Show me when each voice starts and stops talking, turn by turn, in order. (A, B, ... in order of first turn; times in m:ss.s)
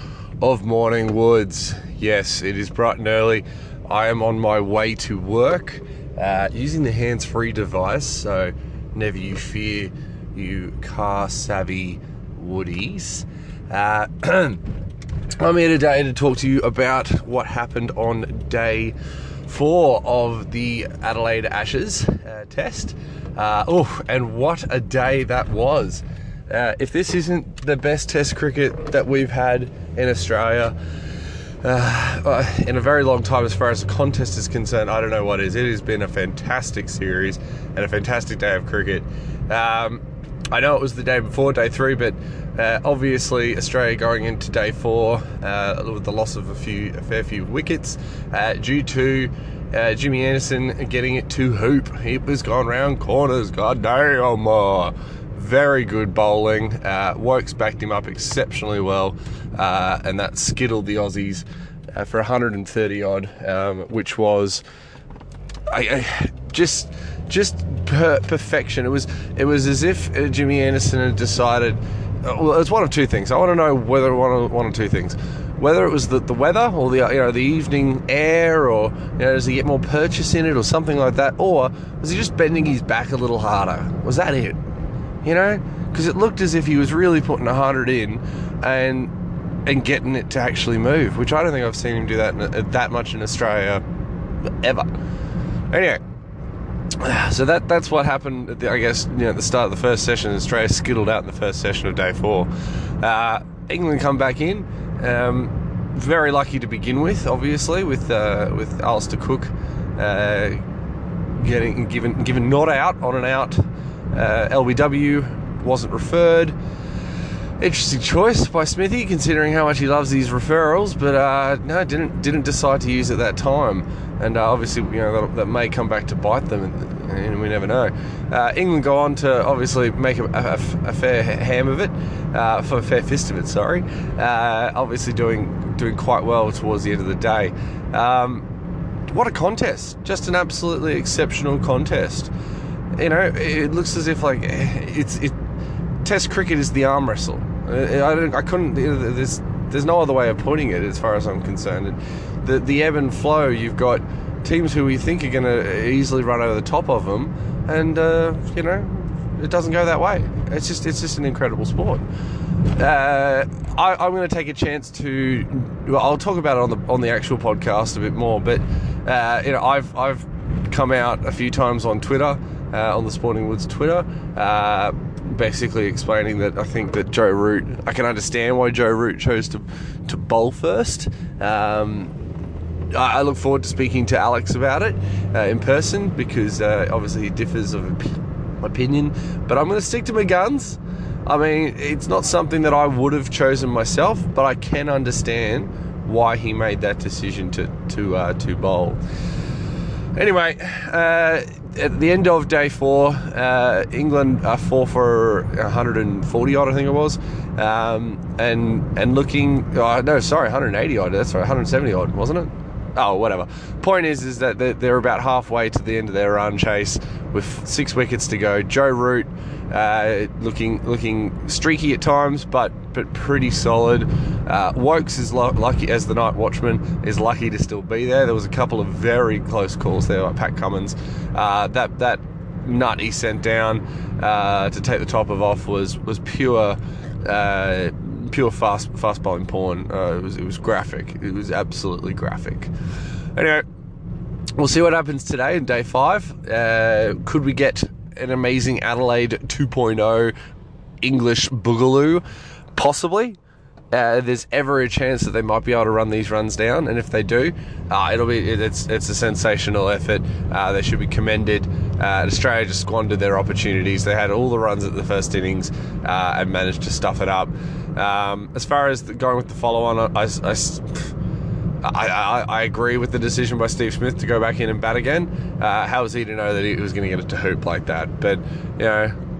0:00.4-0:14.6 A
0:15.4-0:18.9 A
0:19.4-0:30.7 A
0:31.6-1:04.6 A
1:05.7-1:24.6 A
1:25.2-1:29.1 A
1:29.6-1:33.8 A
1:34.4-1:34.9 A
1:35.7-1:36.0 A
1:37.0-1:50.6 A
1:51.3-1:56.5 A
1:57.6-2:18.5 A
2:19.1-2:22.3 A
2:23.0-2:25.4 A
2:26.0-2:42.0 A
2:42.7-3:02.1 A
3:02.9-3:19.0 A
3:20.1-4:02.7 A
4:03.3-4:03.6 A
4:04.6-4:10.3 A
4:11.0-4:12.2 A
4:12.7-4:13.4 A
4:13.9-4:31.1 A
4:31.8-4:39.2 A